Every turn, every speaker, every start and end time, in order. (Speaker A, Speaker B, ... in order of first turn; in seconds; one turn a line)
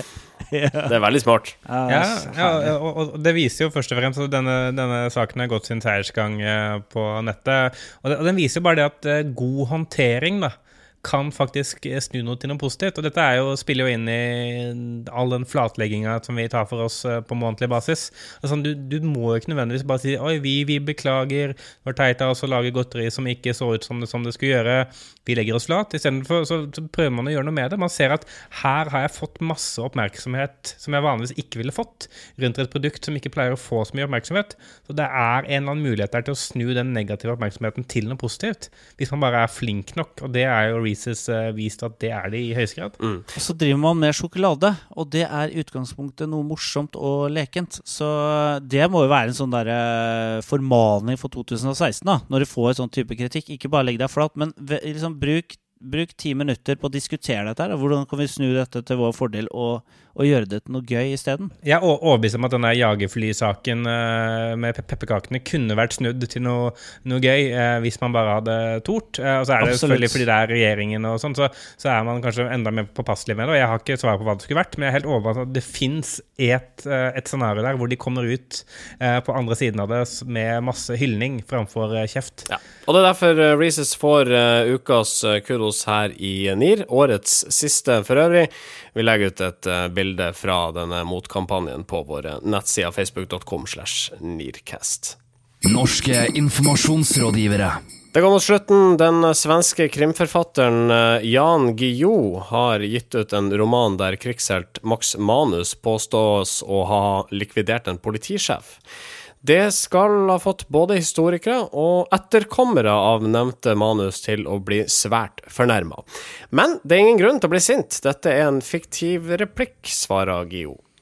Speaker A: 0.5-0.9
Speaker B: 0.9-1.6
Speaker A: 1.7-2.7
Speaker C: 1.9-43.0
Speaker A: 43.4-61.5
Speaker C: 61.6-82.5
Speaker A: 69.6-70.2
Speaker B: 82.5-95.2
Speaker D: 95.6-97.8
Speaker B: 98.1-108.8
Speaker B: 109.4-120.8